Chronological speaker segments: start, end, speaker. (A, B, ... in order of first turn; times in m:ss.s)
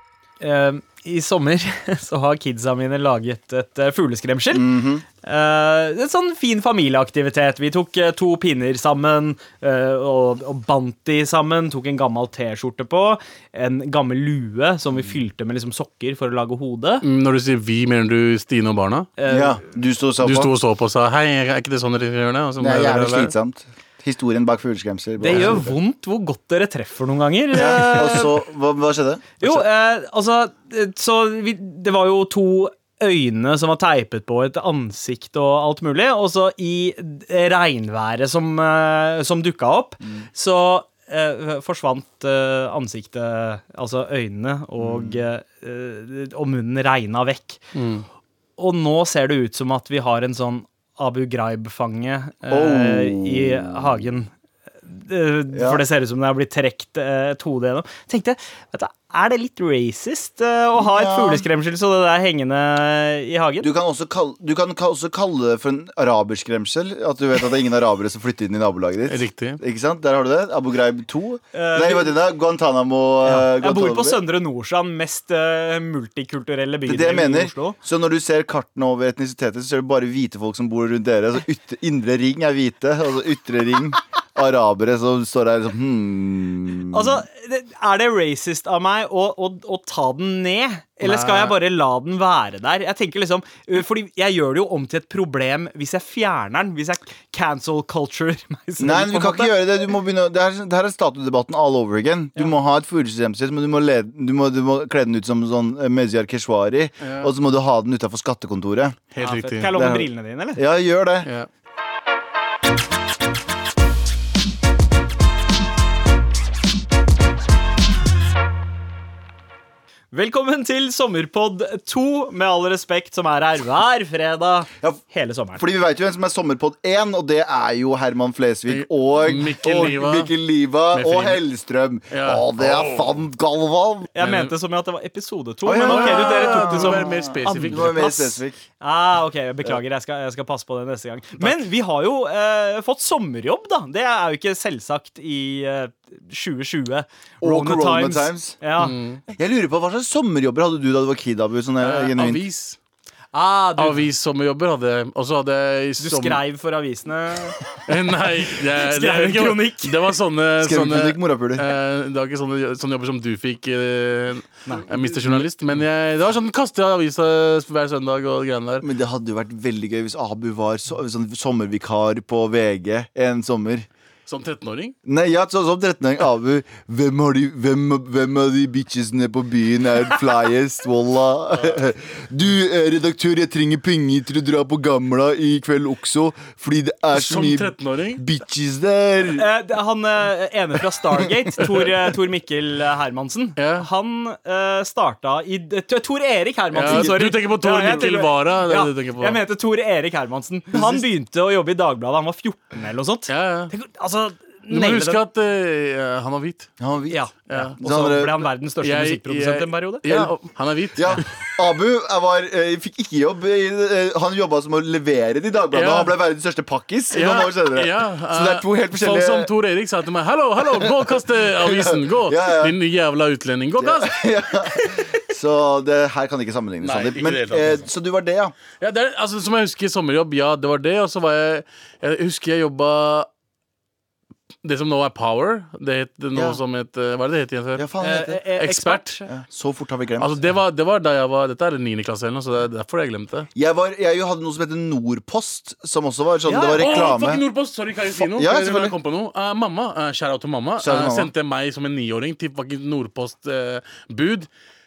0:00.4-0:17.0 A
0:04.5-0:05.0 B
0:17.0-0:19.1 C
0:19.2-0:19.6 A
0:19.3-0:20.5 B
0:20.2-0:23.3 C
0:22.6-0:25.7 B
0:25.2-0:28.4 A
0:25.3-0:25.6 C
0:27.5-0:29.4 B
0:29.4-0:47.6 A
0:44.8-0:45.2 B
0:47.8-0:48.1 C
0:48.6-0:54.3 A
0:52.5-0:53.8 B
0:54.9-1:03.7 A
0:55.5-0:55.8 B
1:00.8-1:01.4 B
1:03.6-1:14.2 B
1:09.1-1:09.6 C
1:11.5-1:12.1 A
1:13.2-1:17.8 A
1:16.9-1:27.2 B
1:26.9-1:39.6 A
1:31.0-1:31.6 C
1:38.8-1:49.0 B
1:47.0-1:47.3 C
1:49.1-1:49.7 C
1:49.2-1:50.6 A
1:49.7-1:51.3 B
2:00.1-2:05.6 A
2:05.6-2:14.1 B
2:08.7-2:10.3 C
2:10.9-2:11.4 C
2:12.1-2:13.1 C
2:14.2-2:29.0 A
2:14.2-2:14.5 C
2:15.6-2:18.6 B
2:15.8-2:18.1 C
2:27.4-2:28.6 B
2:28.8-2:29.2 C
2:29.3-2:32.4 B
2:31.8-2:32.8 C
2:33.3-2:34.0 A
2:33.8-2:36.4 C
2:36.0-2:37.6 A
2:37.8-2:48.9 C
2:38.7-2:40.1 A
2:40.6-2:41.7 B
2:44.9-2:45.4 B
2:48.8-2:53.9 B
2:54.3-2:55.0 C
2:55.1-3:09.4 B
3:01.5-3:01.8 C
3:07.1-3:08.2 C
3:09.3-3:25.2 A
3:11.6-3:11.9 C
3:13.6-3:13.9 C
3:16.7-3:19.4 C
3:16.9-3:17.2 B
3:23.3-3:23.7 C
3:24.7-3:26.7 C
3:26.8-3:27.2 B
3:27.1-3:30.1 A
3:27.5-3:27.8 C
3:27.8-3:28.4 B
3:28.8-3:31.2 C
3:31.0-3:39.5 B
3:35.7-3:36.1 C
3:37.1-3:44.2 C
3:40.6-3:42.8 B
3:43.8-3:48.6 B
3:46.8-3:47.9 C
3:48.8-3:53.3 C
3:54.6-3:57.9 C
3:56.4-3:56.6 B
3:57.8-3:58.4 B
3:58.0-3:59.3 A
3:58.6-3:59.2 C
3:59.3-4:00.3 B
4:00.2-4:03.5 C
4:03.6-4:07.4 B
4:06.5-4:07.0 A
4:06.8-4:14.5 C
4:08.1-4:09.0 B
4:10.8-4:11.3 B